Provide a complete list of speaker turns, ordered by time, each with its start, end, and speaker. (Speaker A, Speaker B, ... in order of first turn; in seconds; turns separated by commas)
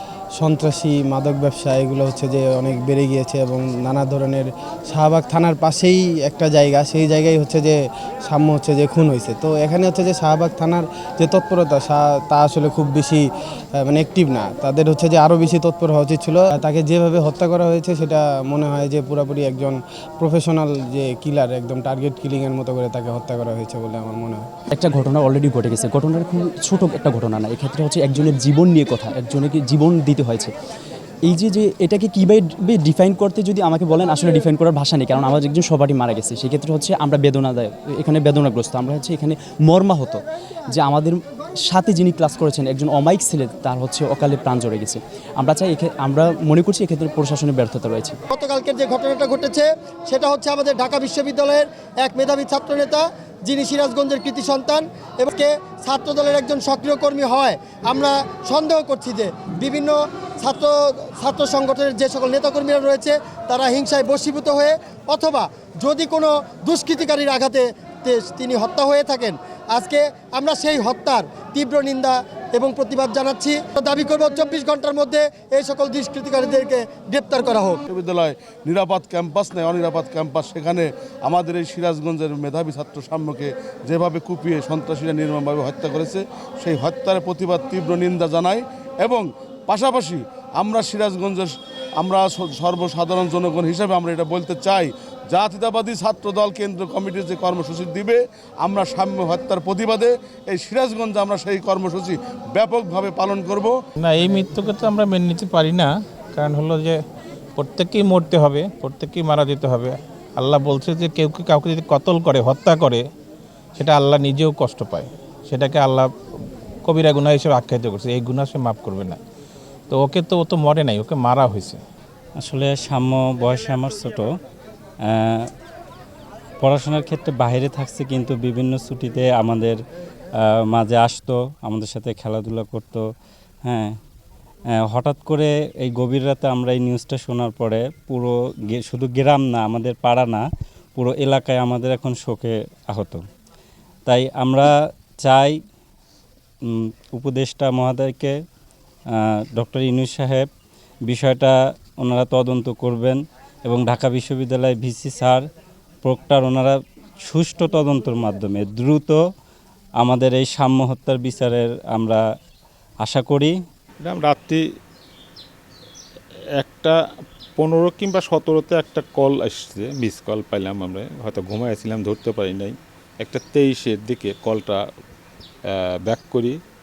Speaker A: 0.4-13.2, Speaker A: 13.8-24.4, Speaker B: 24.7-30.5, Speaker B: 31.2-48.2, Speaker C: 48.3-77.8, Speaker D: 77.9-103.8, Speaker E: 104.0-107.0, Speaker E: 107.5-113.1, Speaker E: 113.8-116.1, Speaker E: 116.8-119.2, Speaker E: 119.9-121.8, Speaker F: 122.4-124.3, Speaker F: 125.0-125.5, Speaker F: 126.6-129.8, Speaker F: 130.4-133.0, Speaker F: 133.7-134.0, Speaker F: 134.7-143.2, Speaker F: 144.1-145.6, Speaker F: 146.7-148.3, Speaker F: 149.1-150.5, Speaker F: 151.1-155.4, Speaker F: 156.0-159.2, Speaker F: 160.0-162.2, Speaker F: 163.0-163.6, Speaker G: 164.0-164.6, Speaker G: 166.6-167.0, Speaker G: 167.6-174.8, Speaker G: 175.7-176.6